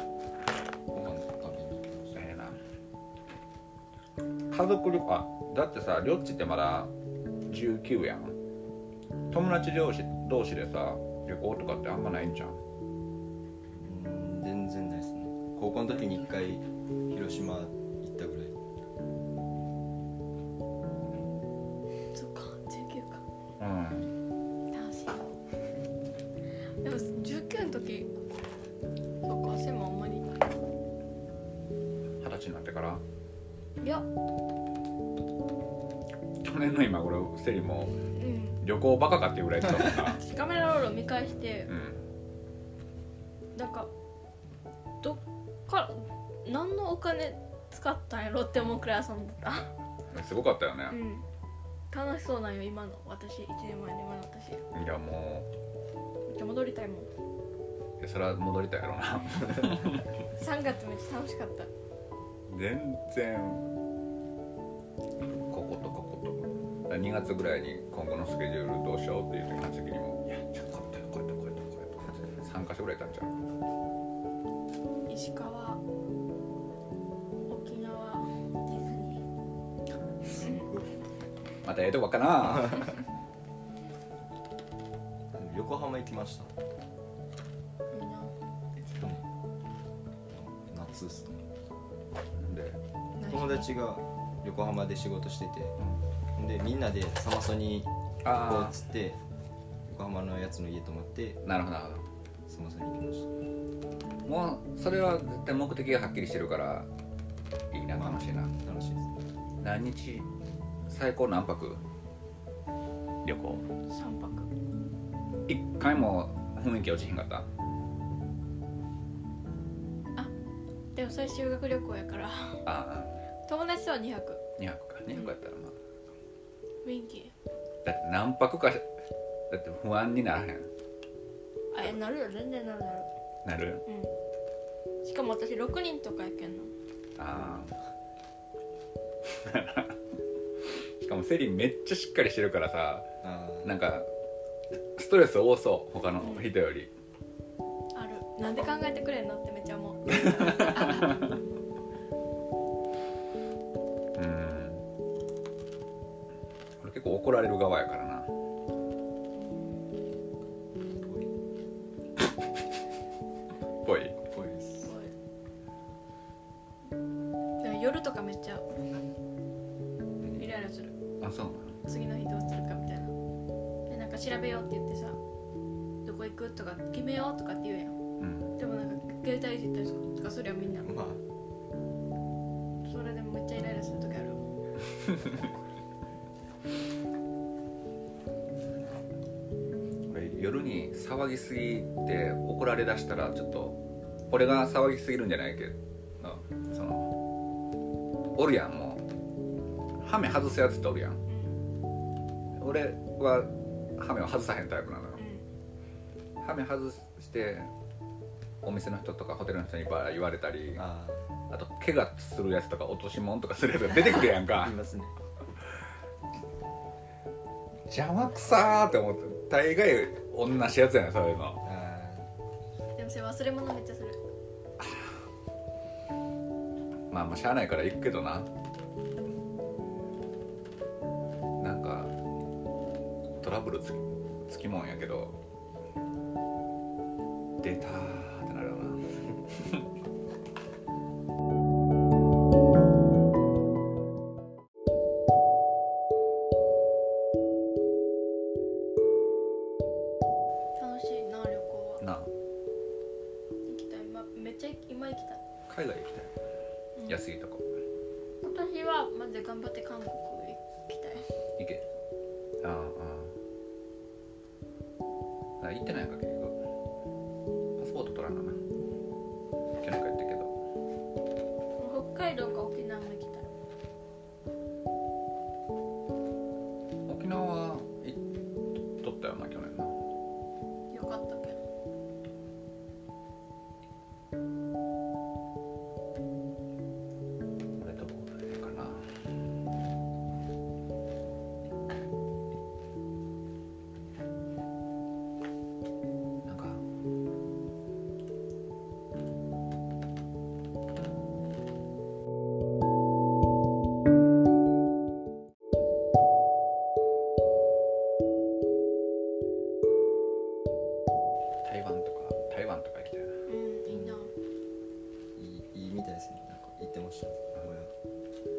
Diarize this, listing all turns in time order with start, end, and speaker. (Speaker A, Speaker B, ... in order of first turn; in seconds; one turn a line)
Speaker A: 0.9-2.2
Speaker B: 2.1-2.6
Speaker B: 4.5-6.9
Speaker B: 7.5-8.4
Speaker B: 9.3-12.6
Speaker A: 13.8-18.5
Speaker C: 22.1-23.2
Speaker B: 23.6-24.1
Speaker C: 24.7-25.3
Speaker C: 26.8-28.1
Speaker C: 29.2-30.4
Speaker B: 32.2-33.0
Speaker C: 33.8-34.1
Speaker B: 36.4-38.0
Speaker C: 38.1-38.6
Speaker B: 38.6-40.2
Speaker C: 40.0-41.7
Speaker B: 41.7-42.0
Speaker C: 43.5-43.9
Speaker C: 45.0-49.7
Speaker B: 50.1-51.0
Speaker C: 50.9-51.2
Speaker C: 51.9-54.6
Speaker B: 54.7-55.5
Speaker C: 56.3-57.1
Speaker B: 58.0-60.1
Speaker C: 60.3-61.7
Speaker B: 62.5-63.7
Speaker B: 65.5-73.3
Speaker C: 75.1-75.8
Speaker C: 77.5-79.2
Speaker A: 80.2-80.9
Speaker C: 80.4-80.7
Speaker B: 81.6-83.0
Speaker A: 85.3-86.5
Speaker C: 87.9-88.3
Speaker A: 88.9-89.2
Speaker A: 90.3-91.5
Speaker B: 92.3-92.8
Speaker C: 93.2-93.7
Speaker A: 93.2-95.8
Speaker A: 96.3-99.2
Speaker B: 98.2-98.8
Speaker A: 99.8-101.4
Speaker B: 101.4-102.0
Speaker A: 102.5-103.3
Speaker B: 104.2-106.9
Speaker B: 107.7-108.5
Speaker A: 107.9-109.1
Speaker B: 109.6-110.3
Speaker B: 110.9-111.8
Speaker B: 113.2-113.7
Speaker C: 113.5-114.5
Speaker B: 115.5-117.5
Speaker C: 120.9-122.7
Speaker B: 122.6-123.2
Speaker C: 123.5-124.4
Speaker B: 124.6-125.8
Speaker C: 126.8-127.3
Speaker B: 127.8-128.8
Speaker B: 129.5-130.7
Speaker C: 131.7-133.1
Speaker B: 133.4-133.8
Speaker C: 133.8-134.1
Speaker C: 135.0-136.7
Speaker B: 137.2-137.7
Speaker A: 137.3-137.7
Speaker B: 139.3-139.9
Speaker B: 141.0-143.1
Speaker A: 143.2-143.7
Speaker B: 143.6-144.1
Speaker B: 144.9-146.9
Speaker C: 146.2-146.5
Speaker C: 147.9-151.2
Speaker B: 154.1-154.8
Speaker B: 156.8-158.3
Speaker C: 159.3-159.9
Speaker A: 161.0-161.3
Speaker B: 163.8-164.2
Speaker A: 164.3-164.9
Speaker C: 164.8-165.1
Speaker C: 167.6-168.6
Speaker C: 170.3-170.9
Speaker B: 171.2-171.8
Speaker C: 171.8-173.1
Speaker C: 173.9-175.2
Speaker C: 176.0-177.9
Speaker B: 178.2-178.6
Speaker C: 178.6-180.9
Speaker A: 180.8-181.2
Speaker C: 182.8-184.4
Speaker B: 190.1-193.8
Speaker B: 194.3-197.1
Speaker B: 198.3-199.1
Speaker B: 200.0-201.2
Speaker C: 201.3-201.6
Speaker B: 202.6-205.2
Speaker C: 205.2-205.4
Speaker B: 206.4-207.7
Speaker B: 208.6-210.8
Speaker A: 210.8-211.2
Speaker B: 211.5-214.7
Speaker A: 214.3-215.2
Speaker B: 217.9-221.6
Speaker A: 221.6-222.3
Speaker C: 222.9-224.2
Speaker B: 227.1-228.5
Speaker B: 231.6-232.1
Speaker B: 233.4-235.4
Speaker B: 237.6-239.7
Speaker C: 250.8-252.0
Speaker B: 252.0-252.3
Speaker C: 253.7-255.4
Speaker B: 255.7-256.3
Speaker C: 256.9-257.2
Speaker B: 257.1-257.7
Speaker C: 258.4-261.2
Speaker B: 261.6-261.9
Speaker B: 262.6-263.3
Speaker B: 265.6-266.6
Speaker B: 267.8-268.6
Speaker B: 269.8-270.5
Speaker C: 271.8-273.5
Speaker B: 277.1-278.2
Speaker B: 278.9-279.9
Speaker C: 280.9-281.6
Speaker B: 287.8-289.1
Speaker B: 296.4-296.8
Speaker B: 311.6-313.3
Speaker C: 313.4-314.3
Speaker A: 313.9-314.2
Speaker A: 315.4-317.9